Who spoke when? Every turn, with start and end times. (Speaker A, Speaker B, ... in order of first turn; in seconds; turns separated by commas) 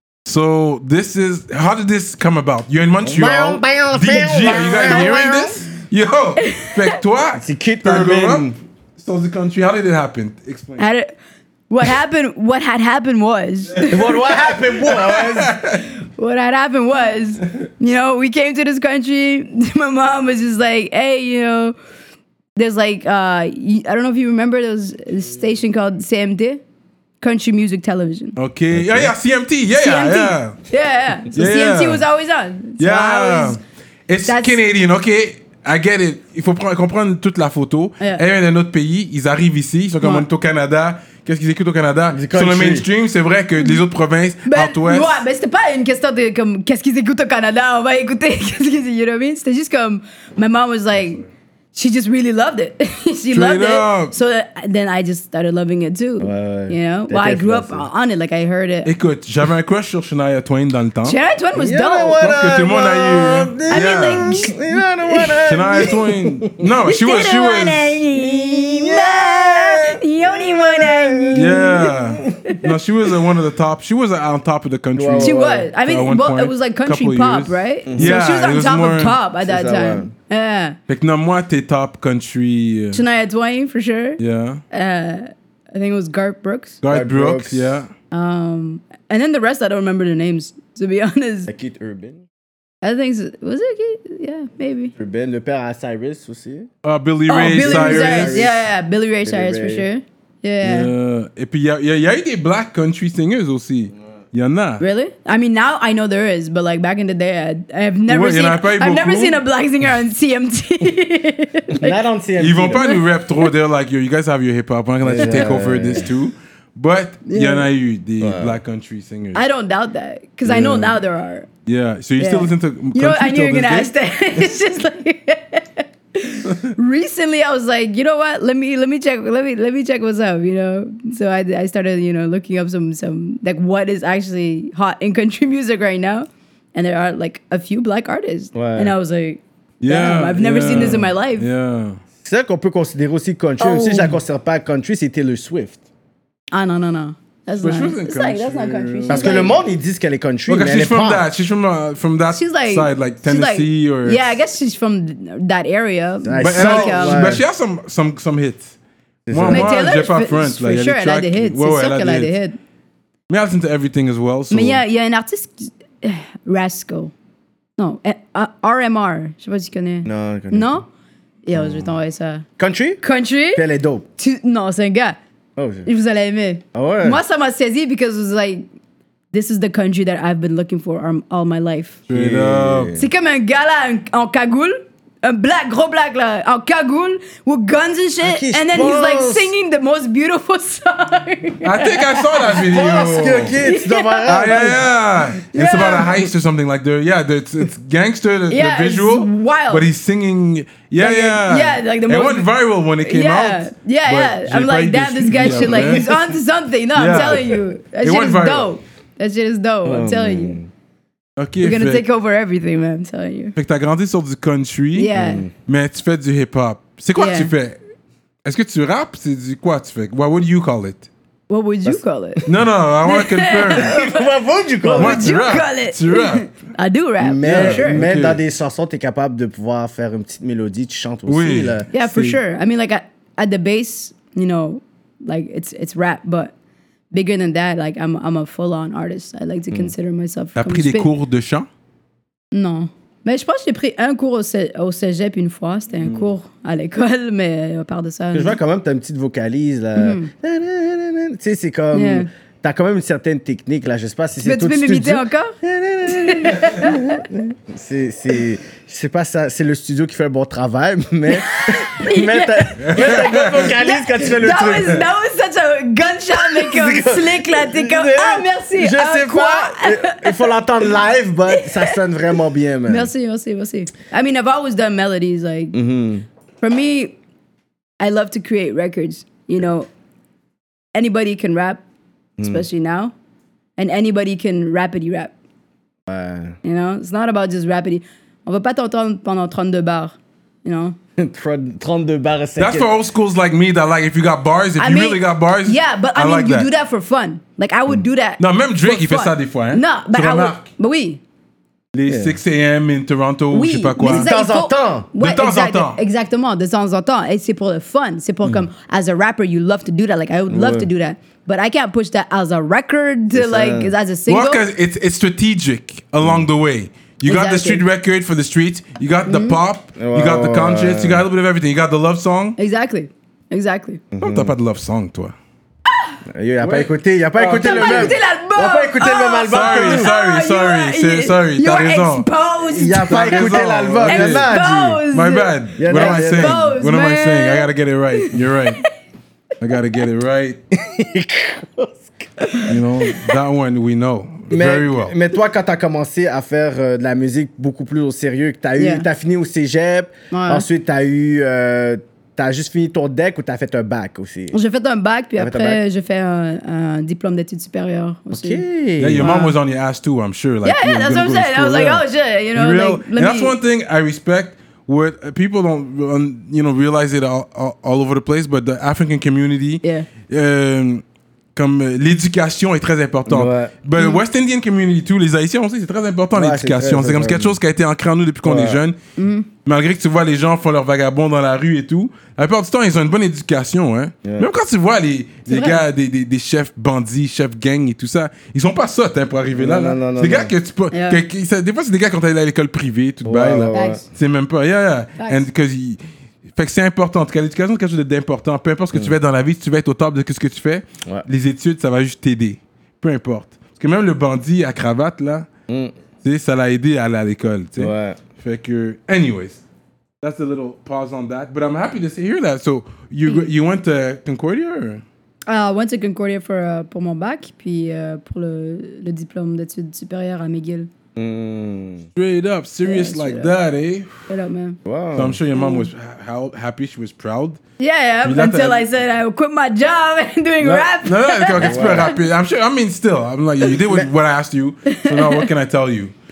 Speaker A: 0.2-10.8, Speaker B: 3.0-5.6, Speaker C: 4.5-5.2, Speaker C: 6.4-7.0, Speaker B: 7.4-8.6, Speaker C: 10.8-11.1, Speaker C: 11.7-14.1, Speaker B: 13.9-15.5, Speaker A: 14.5-15.8, Speaker C: 16.0-21.8, Speaker C: 22.6-26.6, Speaker C: 27.2-28.4, Speaker A: 28.4-30.6, Speaker B: 28.7-29.1, Speaker C: 29.8-33.6, Speaker A: 31.3-32.0, Speaker A: 32.8-45.2, Speaker C: 34.3-34.6, Speaker C: 40.0-40.3, Speaker B: 42.1-42.9, Speaker C: 44.5-58.9, Speaker A: 53.3-54.1, Speaker B: 56.2-57.9, Speaker A: 58.9-61.2, Speaker C: 61.0-62.3, Speaker B: 61.5-66.7, Speaker A: 62.2-64.6, Speaker C: 63.7-65.9, Speaker A: 65.5-68.0, Speaker C: 66.8-71.9, Speaker B: 68.1-72.6, Speaker A: 71.3-79.2, Speaker B: 75.0-75.7, Speaker C: 75.2-80.8, Speaker B: 77.9-78.2, Speaker B: 79.4-80.1, Speaker A: 80.9-83.0, Speaker C: 82.9-84.2, Speaker A: 84.2-84.6, Speaker C: 84.7-86.8, Speaker A: 86.8-87.9, Speaker B: 86.9-87.8, Speaker C: 88.1-91.5, Speaker B: 91.5-92.2, Speaker C: 92.8-94.9, Speaker B: 95.0-96.7, Speaker A: 96.8-98.4, Speaker C: 97.3-100.9, Speaker B: 97.5-98.7, Speaker B: 99.2-99.9, Speaker A: 100.6-104.8, Speaker C: 104.8-112.0, Speaker A: 108.1-109.4, Speaker B: 111.7-112.9, Speaker A: 112.4-119.5, Speaker C: 112.8-113.5, Speaker B: 115.0-116.1, Speaker C: 115.2-115.6, Speaker C: 117.3-117.7, Speaker B: 118.2-118.6, Speaker C: 119.3-121.5, Speaker A: 120.5-120.9, Speaker A: 121.7-123.9, Speaker C: 122.2-141.5, Speaker B: 138.5-138.9, Speaker A: 139.8-142.0, Speaker B: 142.2-145.8, Speaker C: 143.6-144.2, Speaker C: 146.5-149.6, Speaker A: 147.6-149.5, Speaker B: 149.1-151.2, Speaker A: 150.5-154.3, Speaker C: 152.3-157.3, Speaker B: 156.2-157.4, Speaker A: 156.4-158.7, Speaker B: 159.3-159.7, Speaker A: 159.3-162.3, Speaker C: 159.5-162.6, Speaker A: 163.3-164.8, Speaker C: 164.5-167.1, Speaker C: 167.8-170.9, Speaker B: 170.1-170.8, Speaker C: 171.4-172.5, Speaker B: 171.6-171.9, Speaker B: 172.6-173.0, Speaker C: 173.0-173.6, Speaker B: 173.5-174.1, Speaker C: 174.2-175.2, Speaker B: 175.6-175.9, Speaker C: 175.9-178.7, Speaker B: 176.8-177.2, Speaker C: 179.3-182.0, Speaker A: 182.1-182.9, Speaker B: 182.1-183.1, Speaker C: 182.9-192.8, Speaker B: 188.2-189.5, Speaker A: 191.6-193.6, Speaker B: 192.5-194.8, Speaker C: 193.6-194.8, Speaker A: 194.3-206.1, Speaker C: 195.5-196.3, Speaker C: 198.5-199.9, Speaker C: 201.0-202.5, Speaker C: 203.0-210.6, Speaker B: 205.4-206.1, Speaker A: 206.9-208.7, Speaker B: 207.1-207.4, Speaker B: 209.8-210.7, Speaker A: 211.4-212.0, Speaker C: 211.6-213.6, Speaker A: 213.6-217.8, Speaker C: 214.9-215.5, Speaker B: 215.2-215.5, Speaker C: 217.2-217.5, Speaker A: 218.4-221.1, Speaker C: 221.5-222.5, Speaker B: 221.8-222.5, Speaker A: 222.5-223.9, Speaker C: 223.1-224.2, Speaker B: 223.8-225.3, Speaker C: 224.8-228.0, Speaker A: 225.0-226.5, Speaker B: 227.2-232.3, Speaker A: 227.4-228.4, Speaker A: 231.3-231.8, Speaker C: 231.9-236.5, Speaker C: 237.1-241.1, Speaker A: 240.6-241.7, Speaker C: 242.5-248.6, Speaker B: 248.3-265.1, Speaker C: 250.0-250.3, Speaker C: 251.9-252.3, Speaker C: 254.4-257.2, Speaker C: 261.3-270.5, Speaker A: 262.9-263.7, Speaker B: 266.4-273.1, Speaker C: 271.5-272.0, Speaker C: 272.9-275.8, Speaker B: 275.7-276.3, Speaker C: 276.6-277.2, Speaker C: 278.0-279.9, Speaker C: 280.9-281.8, Speaker B: 282.4-282.6, Speaker C: 282.4-283.1, Speaker C: 283.8-285.3, Speaker B: 286.1-286.6, Speaker C: 286.6-291.0, Speaker B: 291.2-292.9, Speaker A: 292.6-296.7, Speaker C: 294.8-301.2, Speaker A: 298.4-300.6, Speaker A: 301.9-304.3, Speaker B: 302.1-302.4, Speaker C: 303.5-314.6, Speaker B: 304.0-305.1, Speaker A: 305.2-306.0, Speaker B: 310.5-310.9, Speaker B: 313.3-313.9, Speaker A: 314.3-322.6, Speaker C: 317.3-317.8, Speaker C: 319.3-319.6, Speaker B: 320.0-321.2, Speaker C: 322.6-324.0, Speaker B: 324.1-324.5, Speaker A: 324.2-325.4, Speaker C: 325.9-326.2, Speaker B: 326.3-330.1, Speaker A: 326.6-328.1, Speaker C: 327.5-333.4, Speaker A: 329.5-332.3, Speaker B: 332.7-335.0, Speaker A: 333.1-334.5, Speaker C: 334.1-338.9, Speaker A: 335.1-338.9, Speaker B: 335.8-336.7, Speaker A: 339.6-340.6, Speaker B: 340.8-342.4, Speaker C: 342.5-343.3, Speaker A: 342.7-345.1, Speaker B: 344.5-354.6, Speaker C: 348.8-349.1, Speaker C: 350.3-350.7, Speaker C: 354.5-358.6, Speaker B: 355.4-355.8, Speaker B: 358.3-359.4, Speaker A: 359.0-371.0, Speaker C: 359.2-359.6, Speaker C: 360.6-363.6, Speaker C: 369.8-370.1, Speaker A: 371.6-379.0, Speaker B: 373.3-373.7, Speaker C: 374.0-374.2, Speaker B: 376.3-377.6, Speaker B: 378.4-378.8, Speaker C: 379.2-379.5, Speaker A: 379.6-396.0, Speaker C: 385.5-385.8, Speaker B: 389.5-390.5, Speaker C: 390.9-391.2, Speaker B: 393.2-394.0, Speaker C: 393.7-394.1, Speaker C: 395.2-395.4, Speaker A: 396.6-405.5, Speaker B: 405.7-405.9, Speaker A: 406.2-409.6, Speaker B: 407.8-408.2, Speaker A: 410.2-415.0, Speaker C: 415.5-420.9, Speaker B: 421.2-422.1, Speaker A: 422.2-424.3, Speaker C: 422.9-423.6, Speaker C: 424.3-424.8, Speaker B: 424.9-425.4, Speaker A: 425.2-427.6, Speaker C: 425.5-425.9, Speaker C: 427.8-432.2, Speaker A: 428.2-428.9, Speaker A: 430.6-436.1, Speaker B: 431.6-432.1, Speaker B: 433.8-434.1, Speaker C: 434.9-435.5